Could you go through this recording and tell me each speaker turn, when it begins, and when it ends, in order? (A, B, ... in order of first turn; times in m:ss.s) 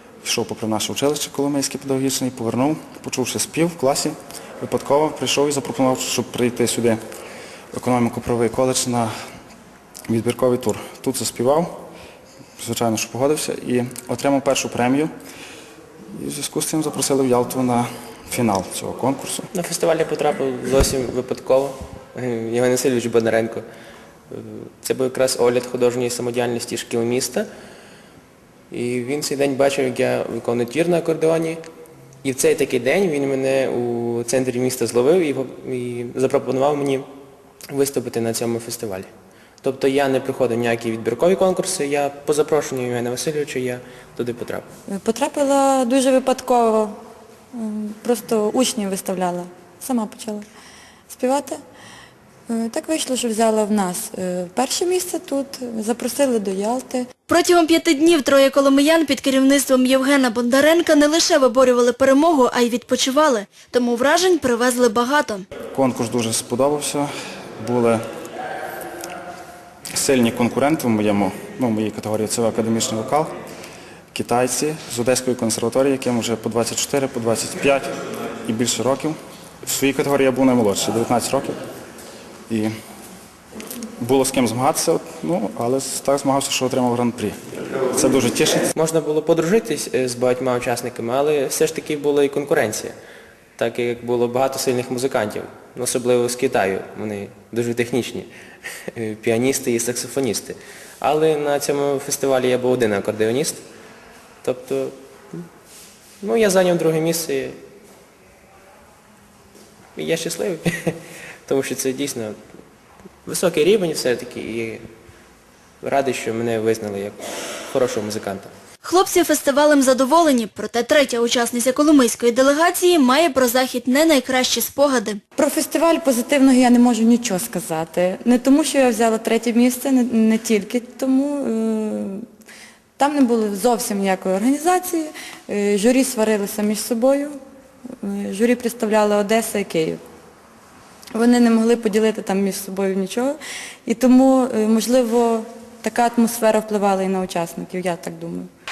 0:00.2-0:07.0 A
0:07.7-0:09.1 A
0:10.1-0:11.8 A
0:12.6-0:15.1 A
0:16.1-0:19.5 A
0:19.5-0:23.6 B
0:24.3-0:27.5 B
0:28.7-0:31.6 B
0:32.2-0:37.1 B
0:37.7-0:39.1 B
0:39.6-0:44.7 B
0:44.9-0:47.0 C
0:47.5-0:50.4 C
0:51.1-0:51.6 C
0:52.5-0:57.1 C
0:57.3-1:05.4 D
1:05.7-1:07.1 A
1:07.6-1:08.0 A
1:09.9-1:13.3 A
1:14.1-1:17.9 A
1:18.4-1:21.6 A
1:24.0-1:27.4 A
1:27.9-1:28.7 A
1:28.7-1:33.0 B
1:33.6-1:38.3 B
1:38.9-1:43.6 B
1:44.4-1:45.4 B
1:46.2-1:47.6 B
1:49.9-1:52.4 B
1:53.2-1:54.8 B
1:55.8-1:58.5 B
1:58.8-2:05.2 D
2:05.4-2:12.2 C
2:13.0-2:17.4 C
2:18.0-2:20.0 C
2:21.1-2:28.5 C